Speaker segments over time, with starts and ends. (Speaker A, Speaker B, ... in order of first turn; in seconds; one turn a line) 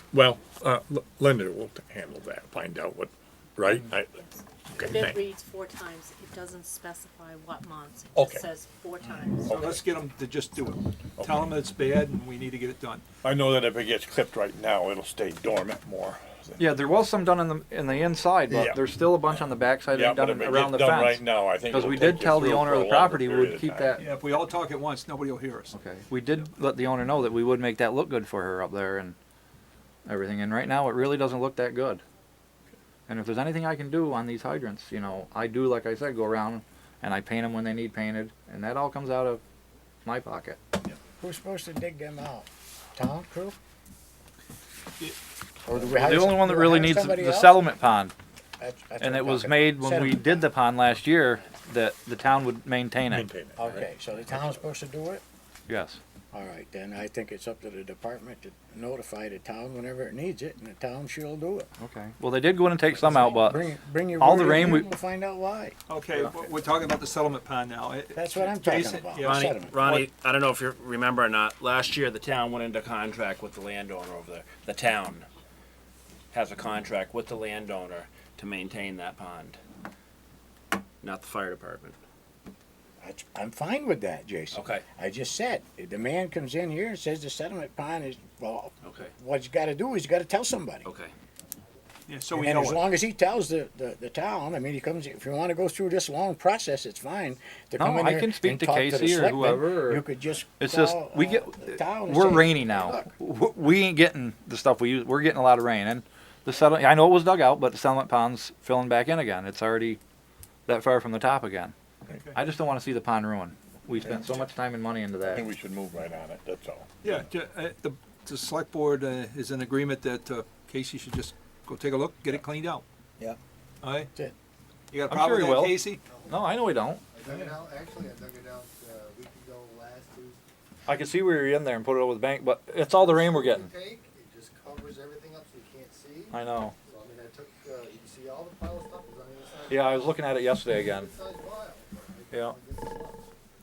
Speaker A: 0.1-5.2
Speaker B: 4.2-9.8
Speaker A: 8.1-8.4
Speaker A: 9.4-9.8
Speaker C: 9.5-13.0
Speaker A: 11.2-11.6
Speaker A: 13.2-16.9
Speaker D: 16.6-24.0
Speaker A: 18.5-18.9
Speaker A: 19.9-24.0
Speaker C: 24.0-25.7
Speaker D: 25.7-29.1
Speaker D: 30.1-32.0
Speaker D: 33.1-39.4
Speaker D: 40.0-40.6
Speaker E: 41.2-43.5
Speaker E: 45.6-47.7
Speaker D: 45.7-48.1
Speaker E: 48.6-50.5
Speaker D: 49.0-53.3
Speaker A: 53.1-54.6
Speaker E: 53.6-55.2
Speaker D: 55.7-56.0
Speaker E: 56.3-61.7
Speaker D: 61.8-63.6
Speaker E: 63.0-65.8
Speaker D: 64.2-64.9
Speaker C: 65.9-70.1
Speaker E: 68.1-69.8
Speaker F: 69.2-75.3
Speaker F: 76.3-79.6
Speaker F: 81.0-82.0
Speaker E: 83.0-90.9
Speaker F: 84.5-84.8
Speaker F: 88.8-89.1
Speaker F: 90.8-91.1
Speaker C: 92.1-92.9
Speaker E: 92.3-103.1
Speaker D: 97.8-100.0
Speaker D: 100.6-110.0
Speaker D: 110.7-111.7
Speaker D: 112.3-115.5
Speaker A: 114.1-114.4
Speaker A: 115.3-117.1
Speaker C: 117.0-122.8
Speaker C: 123.8-124.1
Speaker C: 124.9-126.0
Speaker D: 125.1-127.0
Speaker G: 127.1-130.4
Speaker D: 130.8-133.7
Speaker G: 133.0-136.3
Speaker D: 136.3-136.7
Speaker G: 136.9-140.1
Speaker D: 139.7-141.1
Speaker G: 140.9-143.2
Speaker D: 142.3-142.6